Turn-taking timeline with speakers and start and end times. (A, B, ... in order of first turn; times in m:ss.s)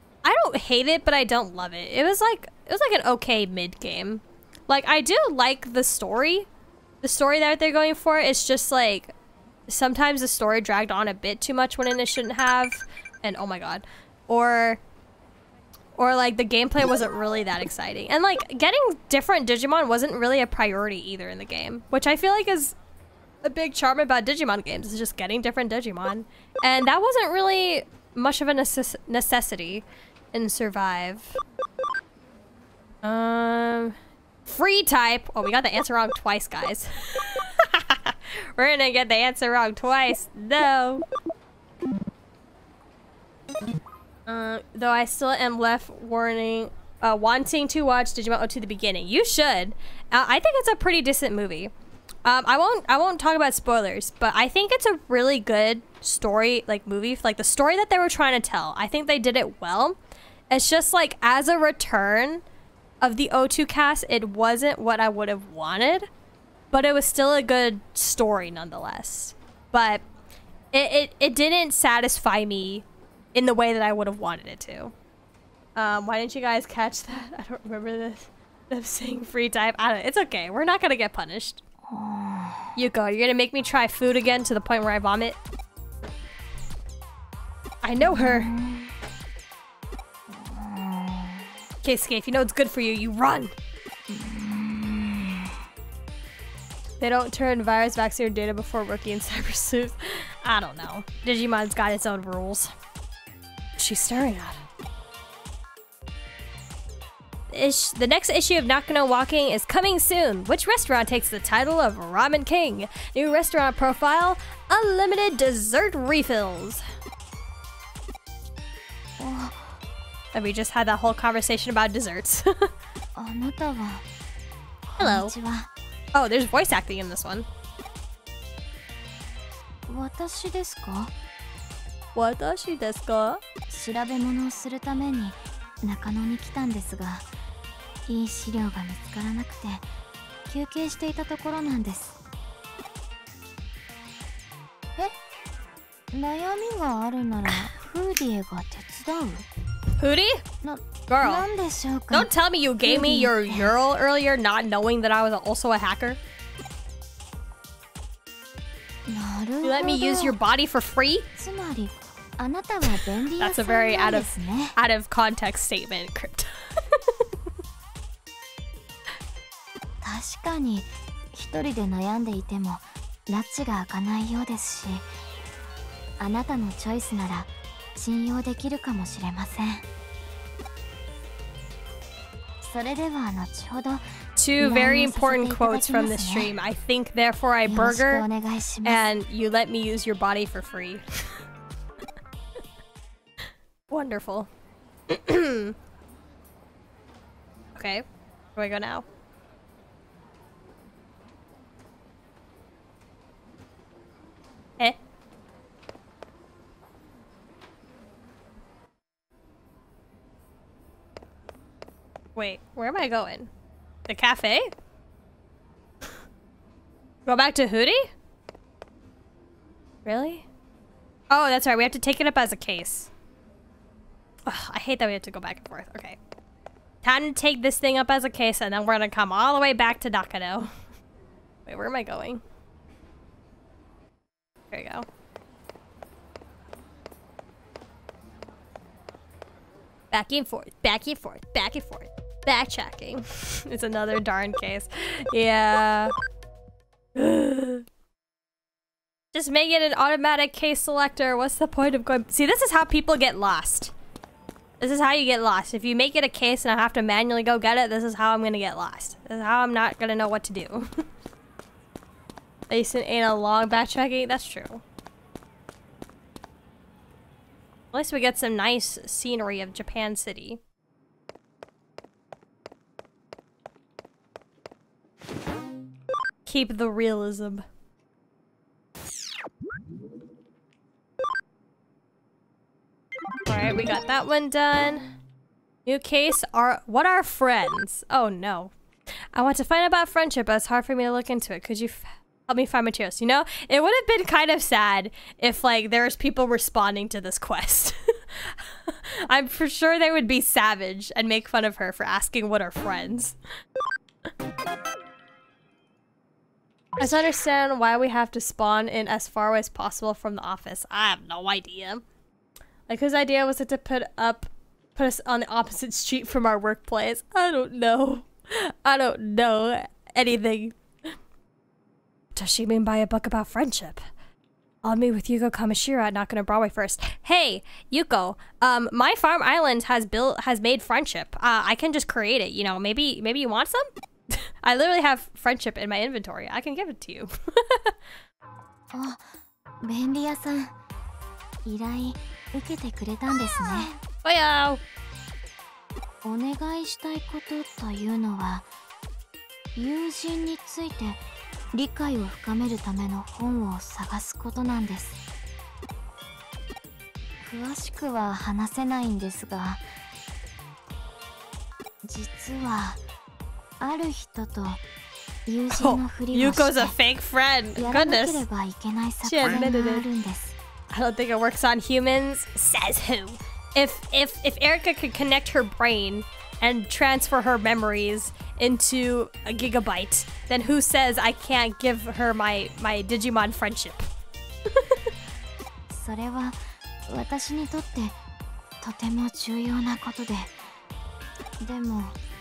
0:00.2-0:06.5 A
0:07.0-0:09.1 A
0:09.7-0:14.8 A
0:16.0-0:22.8 A
0:23.4-0:31.4 A
0:33.0-0:41.0 A
0:44.3-0:51.7 A
0:52.2-1:00.0 A
1:00.5-1:02.4 A
1:03.0-1:06.1 A
1:06.7-1:10.0 A
1:10.7-1:14.9 A
1:15.8-1:21.6 A
1:21.9-1:22.7 B
1:22.8-1:25.4 A
1:27.8-1:28.5 A
1:28.0-1:28.9 B
1:30.3-1:31.4 B
1:31.8-1:33.5 A
1:34.1-1:35.5 B
1:37.0-1:42.7 A
1:43.8-1:44.6 A
1:47.5-1:56.8 A
1:59.2-1:59.8 B
2:00.3-2:02.7 A
2:03.2-2:04.0 B
2:04.9-2:05.7 B
2:05.0-2:05.3 A
2:06.1-2:07.4 A
2:09.9-2:11.1 B
2:12.1-2:13.4 A
2:13.7-2:17.3 B
2:18.1-2:19.9 B
2:20.5-2:22.2 B
2:26.1-2:29.4 B
2:30.0-2:30.4 A
2:30.6-2:32.3 B
2:31.1-2:31.4 A
2:32.1-2:36.2 A
2:32.8-2:33.7 B
2:39.1-2:40.4 B
2:39.6-2:41.3 A
2:41.4-2:44.7 B
2:43.4-2:47.1 A
2:50.0-2:55.1 B
2:56.2-2:59.9 B
3:02.6-3:06.5 B
3:04.4-3:08.2 A
3:07.7-3:09.1 B
3:08.8-3:11.2 A
3:13.9-3:14.5 A
3:15.1-3:15.7 A
3:17.7-3:18.0 A
3:18.5-3:19.0 A
3:32.3-3:33.5 A
3:34.1-3:34.7 A
3:37.2-3:38.1 A
3:40.0-3:40.4 A
3:41.3-3:43.1 A
3:44.5-3:46.2 A
3:47.0-3:50.7 A
3:51.6-3:52.4 A
3:54.7-3:55.0 A
4:00.1-4:06.1 A
4:07.2-4:07.8 A
4:09.3-4:13.9 A
4:14.8-4:20.9 A
4:22.7-4:24.8 A
4:27.9-4:30.6 A
4:36.4-4:37.6 A
4:43.5-4:45.2 A
4:45.8-4:48.7 A
4:49.3-5:03.4 A
5:07.0-5:12.0 A
5:12.9-5:20.8 A
5:22.3-5:24.0 A
5:24.8-5:37.9 A
5:38.9-5:39.3 B
5:39.8-5:40.7 B
5:41.6-5:44.0 B
5:44.2-5:44.8 A
5:46.2-5:48.7 B
5:49.7-5:55.2 B
5:57.4-5:59.9 B
6:02.0-6:03.0 B
6:03.8-6:04.8 B
6:05.4-6:06.9 B
6:05.7-6:08.4 A
6:07.8-6:10.6 B
6:09.2-6:10.0 A
6:10.9-6:24.0 A
6:24.7-6:25.0 A
6:25.9-6:28.2 B
6:28.8-6:30.7 B
6:31.6-6:32.2 B